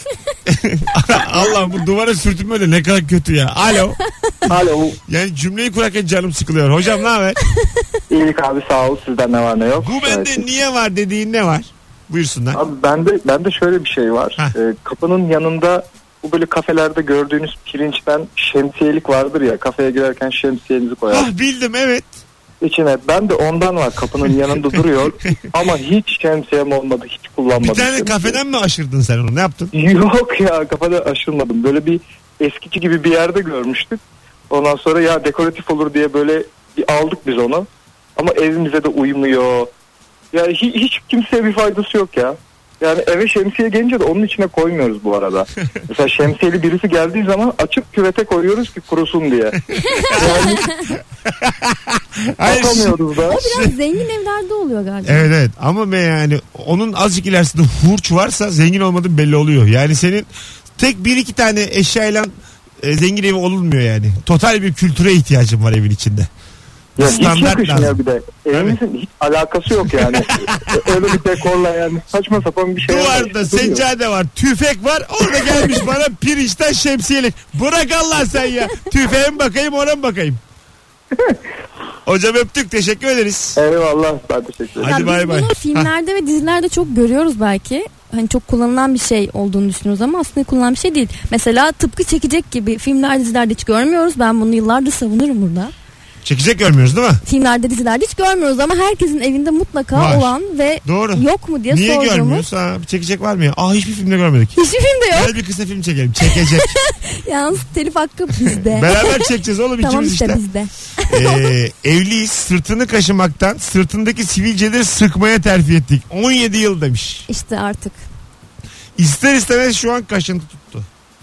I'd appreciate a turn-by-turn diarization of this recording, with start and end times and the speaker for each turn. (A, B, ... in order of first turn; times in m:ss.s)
0:00.5-0:04.0 A
0:04.5-0:05.0 B
0:05.1-0:07.4 A
0:08.1-0:10.5 B
0:09.8-0:12.6 A
0:12.5-0:21.3 B
0:21.1-0:22.2 A
0:22.6-0:28.4 B
0:27.6-0:29.7 A
0:29.7-0:39.7 B
0:40.3-0:49.6 B
0:50.0-0:50.4 A
0:50.1-0:50.6 B
0:51.3-0:53.8 A
0:52.4-0:53.4 B
0:53.3-0:55.3 C
0:55.0-1:06.3 A
1:07.0-1:13.8 B
1:07.0-1:08.0 A
1:08.5-1:08.8 A
1:10.4-1:11.1 A
1:12.8-1:20.4 A
1:22.1-1:23.6 A
1:23.6-1:25.1 B
1:24.8-1:25.9 A
1:24.8-1:35.7 C
1:36.2-1:37.2 A
1:37.2-1:42.4 C
1:39.9-1:44.6 A
1:44.6-1:45.3 C
1:45.1-1:46.8 A
1:46.3-1:49.2 C
1:48.4-1:50.4 A
1:49.8-1:51.5 C
1:51.1-1:57.3 A
1:57.3-1:58.0 C
1:59.0-2:00.9 A